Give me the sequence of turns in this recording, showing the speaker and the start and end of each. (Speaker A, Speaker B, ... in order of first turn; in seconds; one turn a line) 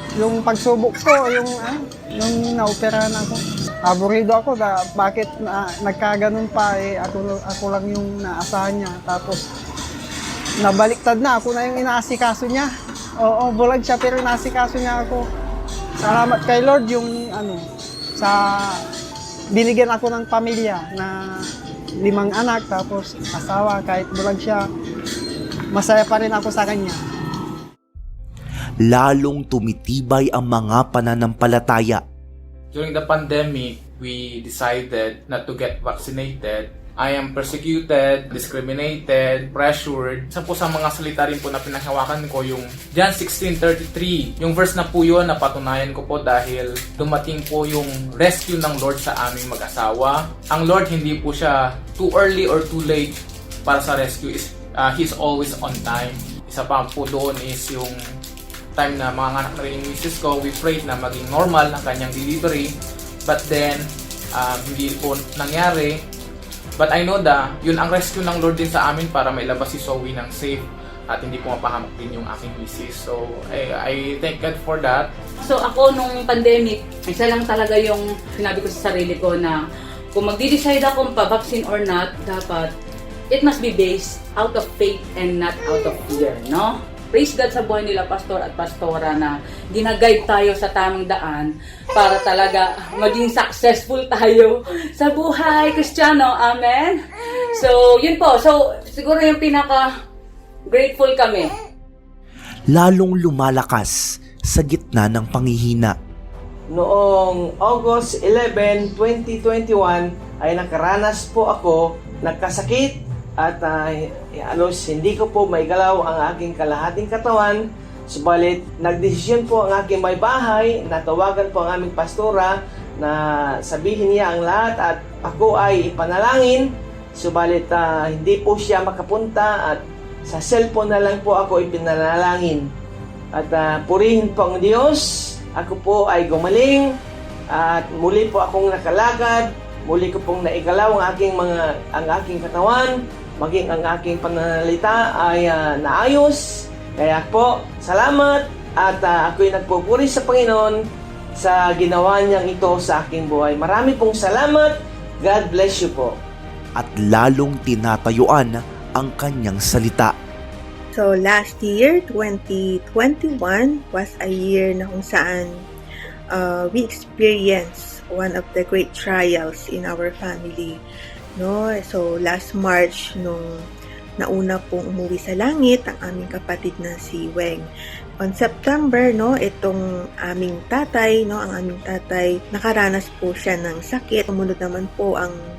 Speaker A: 0.2-9.5
Speaker A: 10.6-12.7
Speaker A: 13.2-15.2
Speaker A: 16.0-17.6
Speaker A: 18.2-18.8
Speaker A: 19.5-21.2
Speaker A: 22.0-24.7
Speaker A: 25.7-27.0
Speaker B: 28.8-32.0
Speaker C: 32.7-53.1
Speaker C: 53.7-58.0
Speaker C: 58.8-62.7
Speaker C: 63.2-66.0
Speaker C: 66.8-75.1
Speaker D: 75.4-79.6
Speaker D: 80.1-82.7
Speaker D: 83.3-97.0
Speaker D: 97.5-99.9
Speaker D: 100.7-101.5
Speaker B: 102.7-106.0
Speaker E: 106.7-132.7
Speaker E: 133.3-137.0
Speaker E: 137.5-150.8
Speaker E: 151.4-156.2
Speaker B: 156.8-160.1
Speaker F: 160.9-165.6
Speaker F: 166.3-170.8
Speaker F: 171.4-173.5
Speaker F: 174.2-177.7
Speaker F: 178.2-185.4